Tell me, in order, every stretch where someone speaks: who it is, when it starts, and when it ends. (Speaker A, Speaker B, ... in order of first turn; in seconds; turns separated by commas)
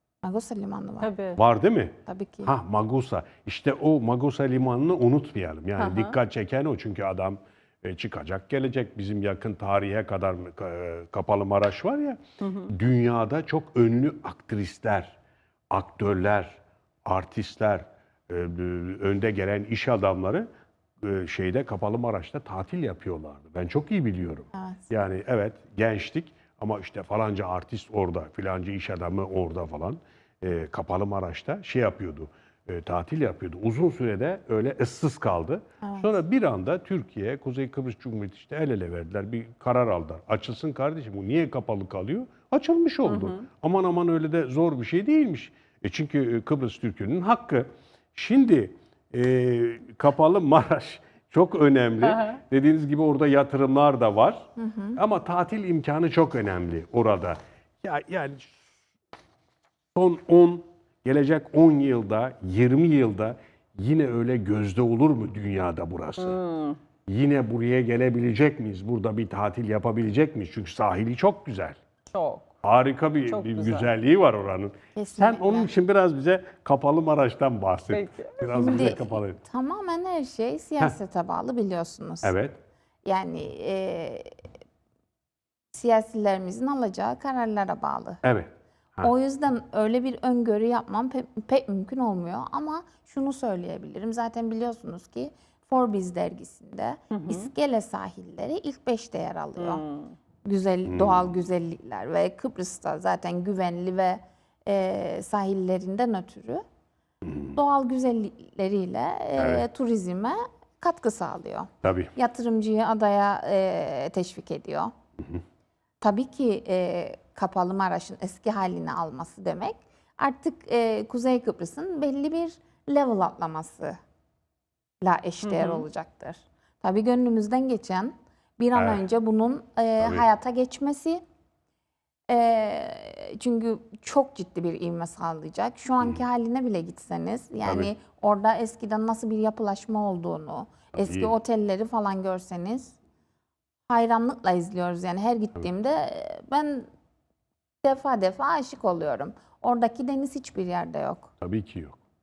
Speaker A: 0.2-1.1, Speaker B: 1.0-1.4, Speaker C: 1.4-15.2, Speaker A: 2.1-2.5, Speaker B: 5.8-6.2, Speaker B: 12.4-12.7, Speaker C: 15.7-20.5, Speaker C: 21.0-58.6, Speaker A: 24.5-24.9, Speaker A: 35.8-36.1, Speaker B: 43.1-43.4, Speaker B: 52.0-52.4, Speaker A: 54.6-55.0, Speaker C: 60.0-66.4, Speaker B: 66.2-66.8, Speaker C: 67.1-71.8, Speaker B: 72.1-72.5, Speaker C: 72.6-79.4, Speaker B: 73.3-73.9, Speaker A: 75.0-75.7, Speaker B: 77.9-78.9, Speaker A: 78.5-82.3, Speaker C: 82.2-82.6, Speaker A: 83.0-84.3, Speaker A: 85.7-88.2, Speaker C: 88.2-89.1, Speaker A: 89.0-99.8, Speaker B: 97.1-97.5, Speaker B: 99.6-100.1, Speaker A: 100.5-106.6, Speaker C: 100.9-101.3, Speaker C: 107.2-107.6, Speaker A: 107.5-114.9, Speaker C: 109.4-109.6, Speaker C: 111.8-112.1, Speaker A: 116.0-124.0, Speaker A: 125.0-131.2, Speaker B: 125.4-125.9, Speaker C: 128.8-129.0, Speaker A: 132.3-142.9, Speaker C: 137.7-137.9, Speaker C: 140.9-141.3, Speaker A: 143.9-146.9, Speaker A: 147.8-151.3, Speaker C: 151.4-152.0